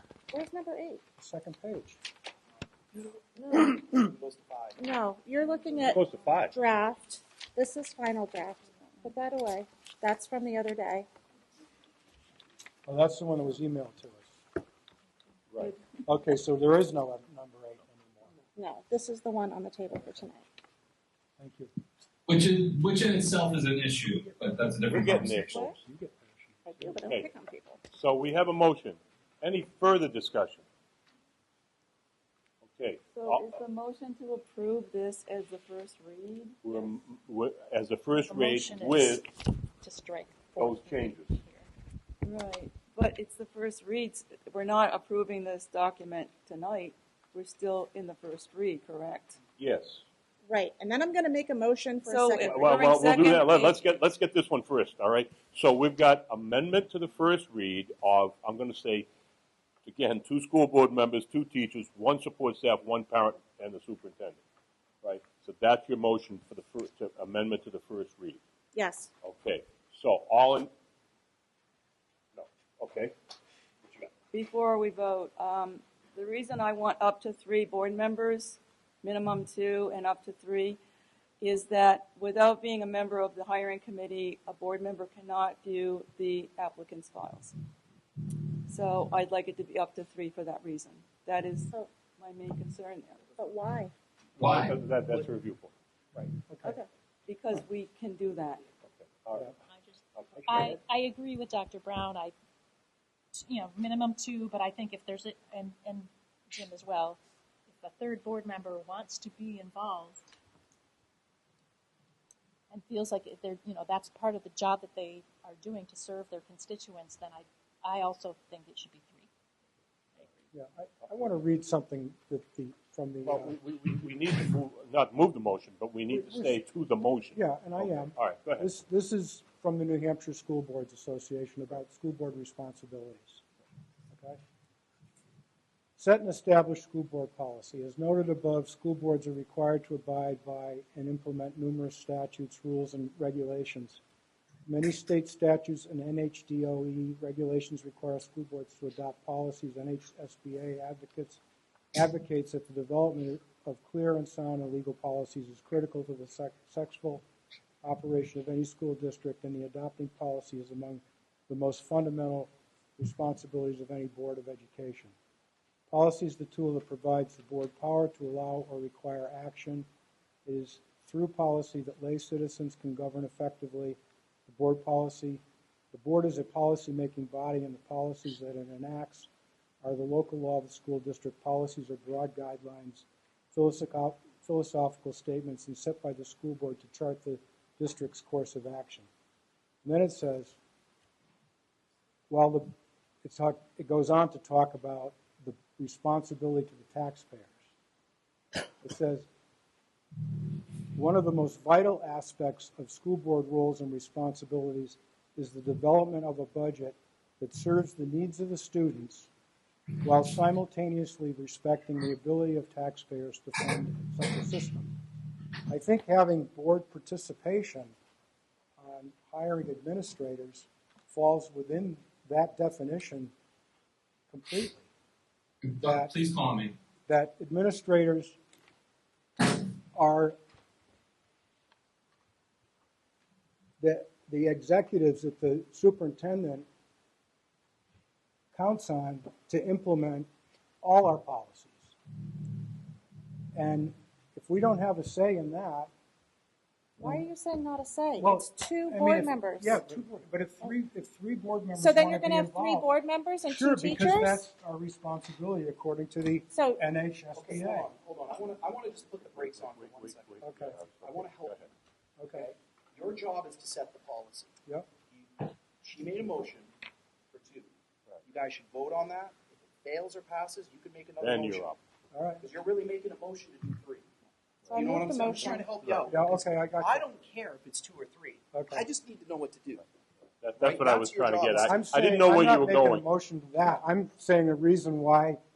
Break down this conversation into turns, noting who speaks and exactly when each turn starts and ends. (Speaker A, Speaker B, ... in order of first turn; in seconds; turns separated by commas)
Speaker A: 0.3-1.0, Speaker B: 1.2-2.0, Speaker A: 3.1-3.8, Speaker C: 3.9-4.8, Speaker A: 4.8-11.1, Speaker D: 5.8-6.6, Speaker B: 12.9-14.3, Speaker D: 15.5-15.8, Speaker B: 16.0-18.3, Speaker A: 18.6-20.4, Speaker B: 21.4-21.7, Speaker E: 22.3-25.6, Speaker D: 24.9-25.8, Speaker B: 25.8-26.9, Speaker A: 26.7-27.8, Speaker D: 27.0-27.3, Speaker D: 27.9-30.6, Speaker D: 32.6-33.5, Speaker F: 33.1-36.9, Speaker D: 36.6-39.2, Speaker G: 38.2-39.2, Speaker G: 39.8-41.7, Speaker D: 40.5-41.4, Speaker F: 42.2-49.4, Speaker D: 49.6-50.0, Speaker A: 50.4-52.7, Speaker F: 52.0-53.8, Speaker D: 52.4-59.1, Speaker D: 59.8-64.4, Speaker D: 65.0-68.4, Speaker A: 68.7-69.1, Speaker D: 69.2-70.7, Speaker D: 72.3-73.1, Speaker F: 74.3-80.8, Speaker F: 81.4-87.6, Speaker F: 88.5-93.2, Speaker A: 93.4-93.9, Speaker D: 94.4-95.7, Speaker E: 94.4-94.8, Speaker B: 96.5-96.8, Speaker F: 97.3-98.6, Speaker D: 98.9-99.5, Speaker G: 99.6-102.3, Speaker D: 100.1-100.8, Speaker G: 103.3-110.3, Speaker G: 112.7-119.3, Speaker B: 120.5-123.5, Speaker D: 123.2-128.7, Speaker B: 126.1-126.6, Speaker B: 127.3-133.4, Speaker B: 134.1-134.4, Speaker B: 136.0-144.0, Speaker B: 144.7-151.4, Speaker B: 151.9-157.2, Speaker B: 157.8-165.1, Speaker B: 165.9-169.9, Speaker B: 170.4-175.4, Speaker B: 175.9-179.3, Speaker B: 179.8-189.1, Speaker B: 189.8-190.6, Speaker B: 192.3-192.7, Speaker B: 193.2-197.7, Speaker B: 198.8-199.3, Speaker B: 200.9-209.3, Speaker B: 210.0-215.0, Speaker B: 215.7-217.9, Speaker B: 218.8-223.3, Speaker B: 224.3-224.9, Speaker E: 225.6-226.7, Speaker B: 225.8-226.2, Speaker B: 227.1-228.4, Speaker B: 229.9-230.4, Speaker B: 233.8-236.7, Speaker B: 238.5-240.3, Speaker B: 240.8-241.9, Speaker B: 243.5-245.9, Speaker A: 247.0-250.0, Speaker B: 247.0-247.3, Speaker B: 248.2-252.9, Speaker A: 251.7-254.4, Speaker B: 253.4-257.9, Speaker A: 256.5-256.8, Speaker C: 257.3-261.7, Speaker D: 259.3-261.7, Speaker B: 260.4-260.8, Speaker B: 262.2-262.5, Speaker C: 262.3-264.5, Speaker C: 265.1-266.7, Speaker C: 267.3-267.7, Speaker C: 268.2-271.8, Speaker D: 271.2-271.8, Speaker B: 272.1-272.4, Speaker C: 272.4-274.1, Speaker A: 274.7-275.6, Speaker C: 274.7-279.9, Speaker D: 275.8-276.1, Speaker B: 276.1-277.0, Speaker B: 278.5-278.9, Speaker D: 280.4-283.0, Speaker C: 280.6-281.8, Speaker B: 281.6-285.4